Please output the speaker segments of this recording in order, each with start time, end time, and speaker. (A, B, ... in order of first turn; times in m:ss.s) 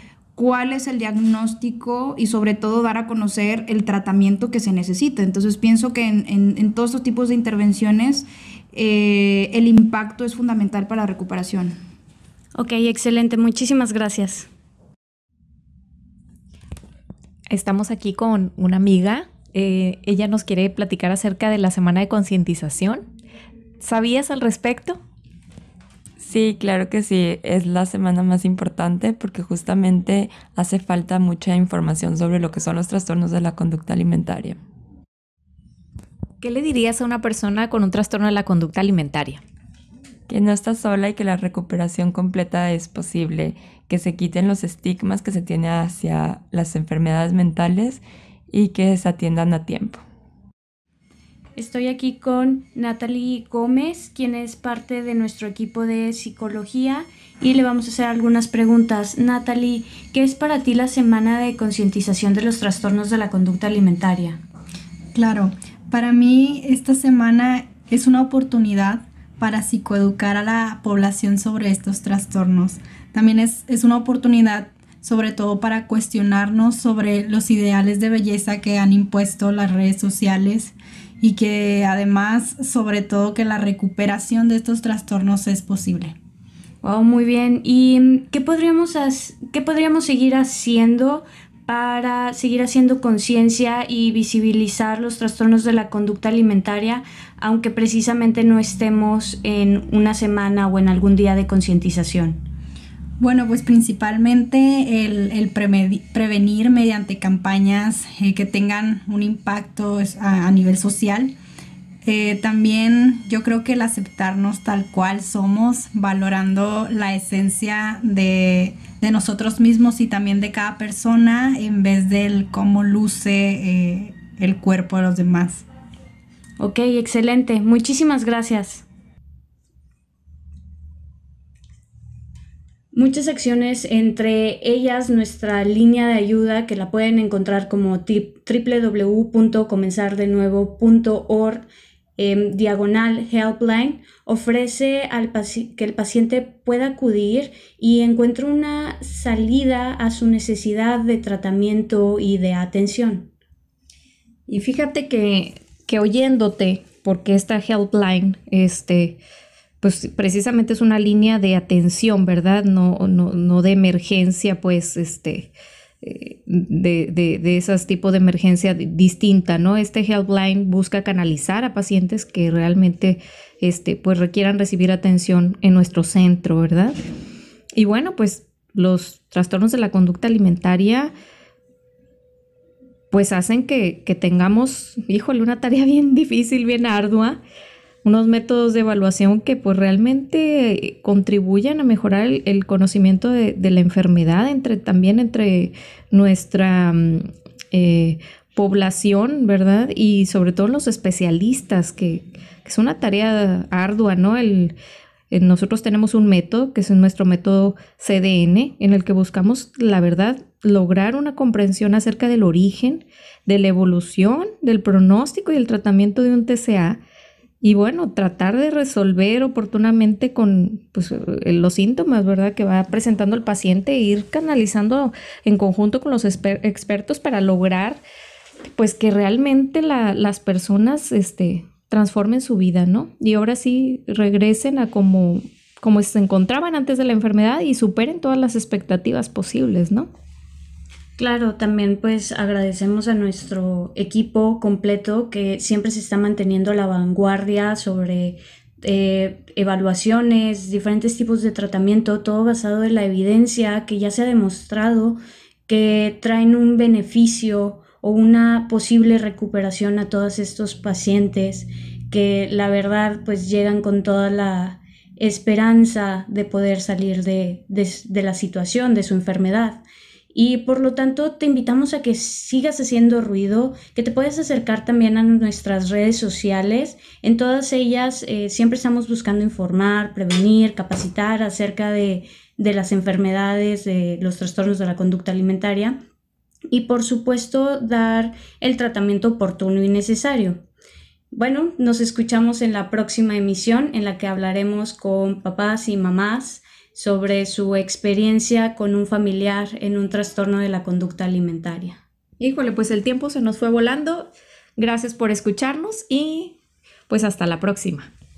0:00.4-0:11.8 A
0:12.6-0:14.5 B
0:17.5-0:23.0 C
0:23.8-0:25.0 C
0:26.2-0:34.6 D
0:36.4-0:39.4 C
0:40.3-0:50.0 D
0:51.6-1:04.4 B
1:05.1-1:26.1 E
1:26.8-1:42.4 B
1:43.2-1:51.3 E
1:52.0-2:05.6 E
2:06.6-2:08.8 B
2:12.9-2:21.7 B
2:22.2-2:33.3 B
2:34.5-2:39.2 C
2:39.8-2:57.0 C
2:57.7-3:01.1 C
3:03.1-3:07.4 C
3:08.0-3:24.8 C
3:25.3-3:37.0 C
3:37.6-3:48.0 C
3:48.8-4:00.1 C
4:01.2-4:46.0 B
4:46.7-4:50.6 B
4:51.3-5:02.0 B
5:02.4-5:06.6 C
5:07.1-5:08.1 C